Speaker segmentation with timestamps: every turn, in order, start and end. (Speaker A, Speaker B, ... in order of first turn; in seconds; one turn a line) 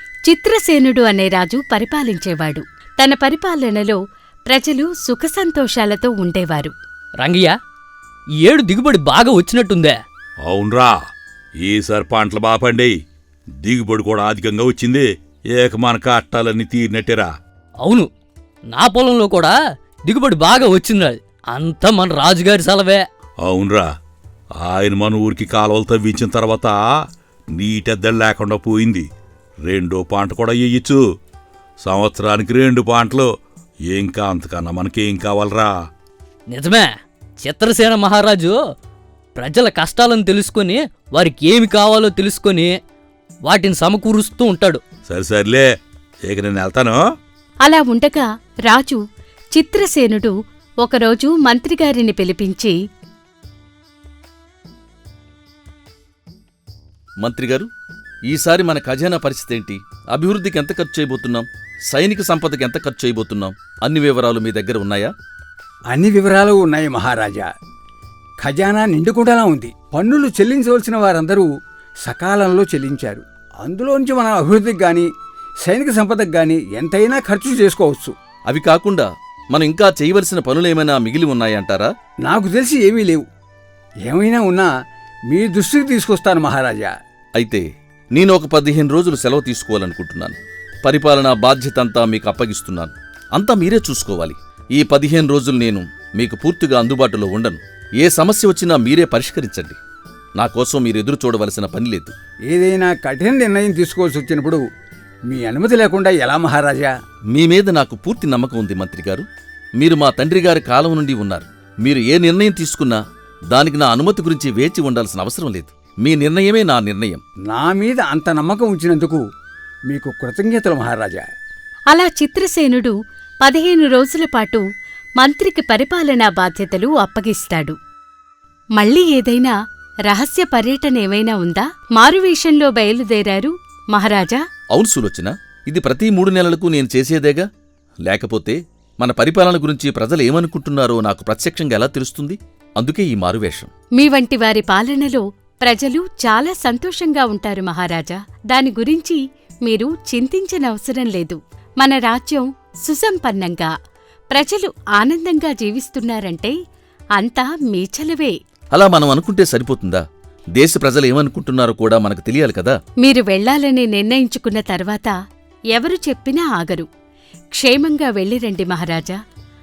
Speaker A: 0.3-6.7
Speaker B: 7.2-7.5
Speaker B: 8.4-10.0
Speaker C: 10.4-10.9
Speaker C: 11.6-12.9
Speaker C: 13.6-15.0
Speaker C: 15.6-17.3
Speaker B: 17.8-18.1
Speaker B: 18.7-23.0
Speaker C: 23.4-23.8
Speaker C: 24.6-26.8
Speaker C: 27.6-29.0
Speaker C: 29.6-31.0
Speaker C: 31.8-33.3
Speaker C: 33.9-35.7
Speaker B: 36.5-38.6
Speaker B: 39.4-42.8
Speaker B: 43.4-44.8
Speaker C: 45.1-45.6
Speaker C: 46.2-47.0
Speaker A: 47.6-49.0
Speaker A: 49.5-52.7
Speaker D: 57.2-57.7
Speaker D: 58.3-65.1
Speaker E: 65.9-67.5
Speaker E: 68.4-71.5
Speaker E: 72.0-75.1
Speaker E: 75.6-78.1
Speaker D: 78.5-81.9
Speaker E: 82.2-83.2
Speaker E: 84.0-84.7
Speaker E: 85.3-86.9
Speaker D: 87.4-99.8
Speaker D: 100.4-102.1
Speaker E: 102.5-104.6
Speaker E: 105.3-106.9
Speaker D: 107.3-109.2
Speaker D: 109.8-113.0
Speaker D: 113.5-117.2
Speaker E: 117.5-119.2
Speaker E: 119.9-121.2
Speaker A: 121.9-124.6
Speaker A: 125.2-127.8
Speaker A: 128.8-129.5
Speaker A: 130.1-134.4
Speaker D: 134.7-137.4
Speaker D: 138.1-143.7
Speaker A: 144.0-153.7
Speaker A: 154.3-156.5
Speaker A: 157.2-158.3
Speaker D: 158.7-160.0
Speaker D: 160.6-162.8
Speaker A: 163.0-165.1
Speaker A: 165.7-166.9
Speaker A: 167.5-169.2